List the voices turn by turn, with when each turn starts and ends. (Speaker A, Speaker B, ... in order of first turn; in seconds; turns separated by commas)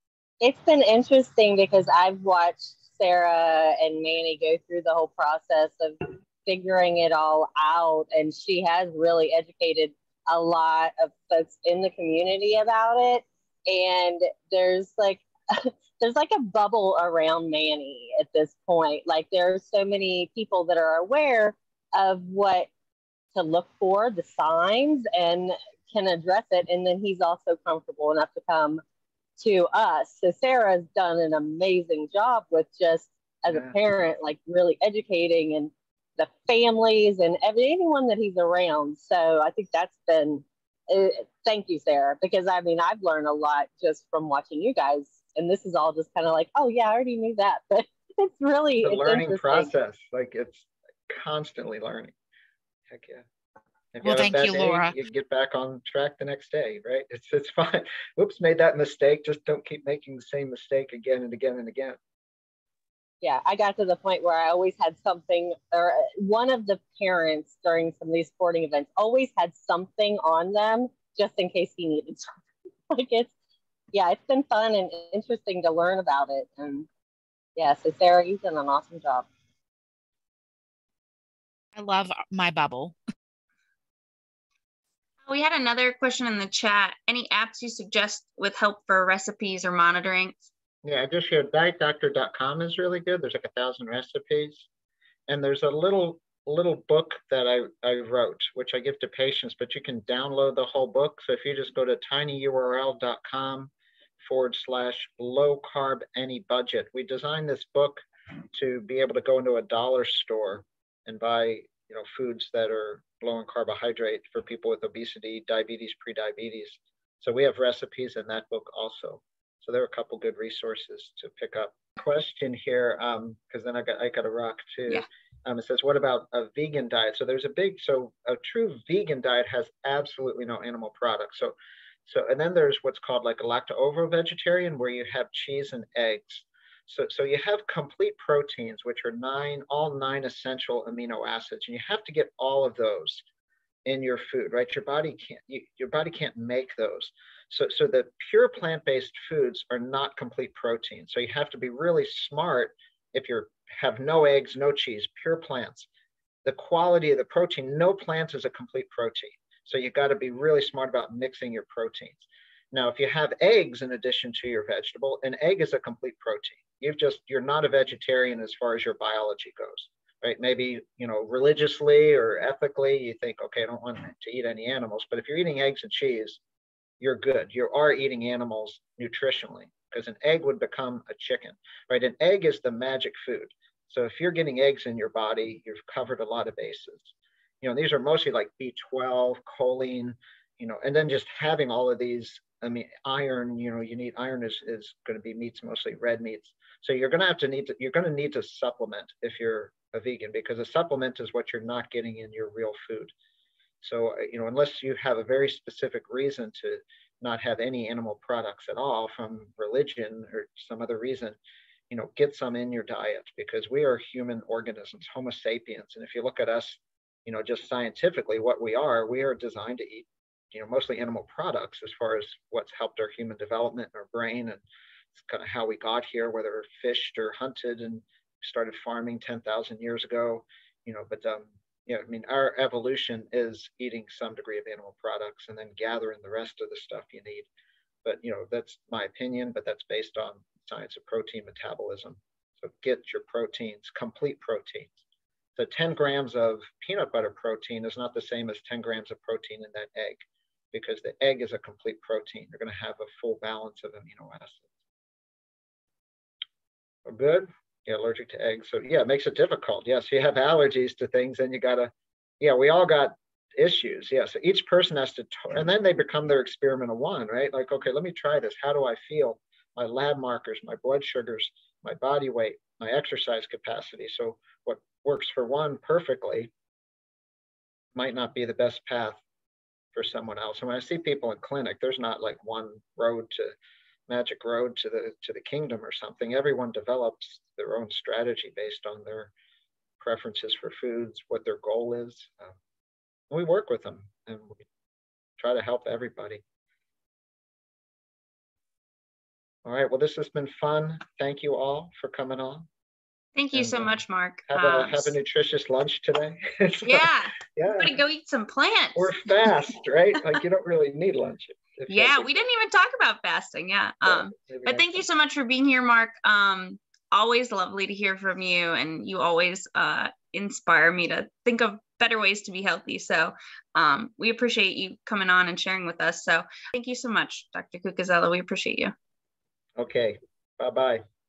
Speaker A: 0.4-22.7, Speaker A: 23.3-28.8, Speaker A: 29.4-49.7, Speaker B: 33.5-33.8, Speaker B: 48.8-52.1, Speaker B: 52.9-53.2, Speaker B: 53.9-62.0, Speaker C: 54.0-54.9, Speaker A: 63.2-72.3, Speaker A: 72.9-73.3, Speaker A: 73.9-76.9, Speaker A: 77.6-79.3, Speaker C: 81.8-83.0, Speaker D: 85.2-90.5, Speaker B: 90.8-94.7, Speaker B: 95.3-131.5, Speaker B: 132.1-143.2, Speaker B: 143.8-155.9, Speaker B: 156.4-176.4, Speaker B: 177.0-203.1, Speaker B: 203.8-211.4, Speaker B: 211.9-224.6, Speaker B: 225.1-237.5, Speaker B: 238.0-245.0, Speaker B: 245.6-254.7, Speaker B: 257.0-276.5, Speaker B: 277.9-279.2, Speaker B: 279.9-283.5, Speaker B: 284.1-289.3, Speaker B: 290.0-292.6, Speaker B: 293.3-294.6, Speaker B: 295.4-296.4, Speaker B: 299.6-302.7, Speaker D: 303.3-305.1, Speaker B: 303.5-307.9, Speaker D: 306.8-309.5, Speaker B: 308.9-312.4, Speaker D: 311.9-328.9, Speaker B: 314.0-315.0, Speaker B: 329.8-331.0